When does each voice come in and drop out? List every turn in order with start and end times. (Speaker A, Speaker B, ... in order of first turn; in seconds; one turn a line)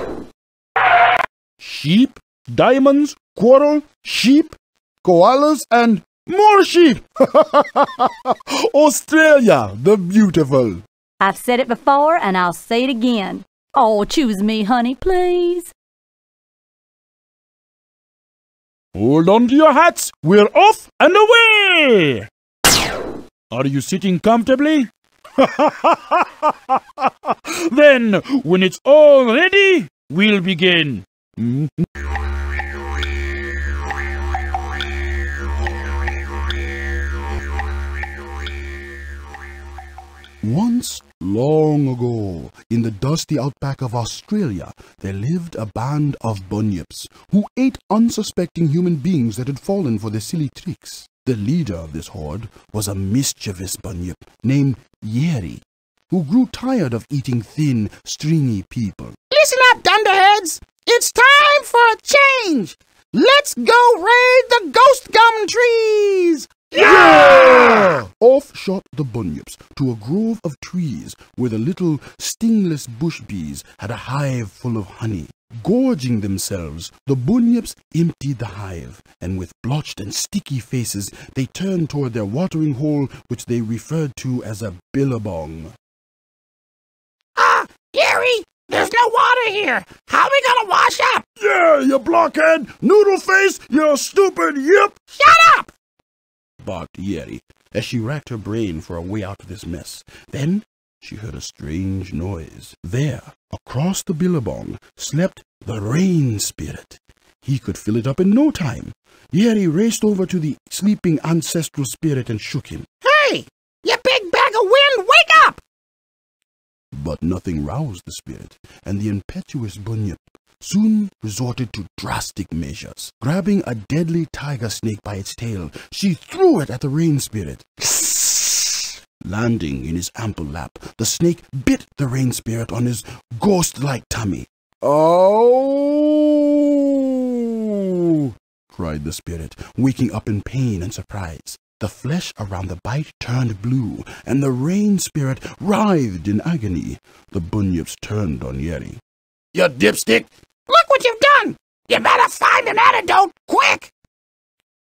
Speaker A: 1.6-10.8
Speaker B: 11.2-15.7
Speaker A: 18.9-22.3
Speaker A: 23.5-31.9
Speaker A: 40.4-59.2
Speaker C: 59.3-67.9
Speaker A: 66.7-85.7
Speaker C: 87.3-91.2
Speaker A: 91.4-95.1
Speaker C: 95.2-95.7
Speaker A: 96.6-112.9
Speaker C: 113.0-115.6
Speaker A: 116.9-128.3
Speaker A: 129.2-149.0
Speaker C: 149.5-153.9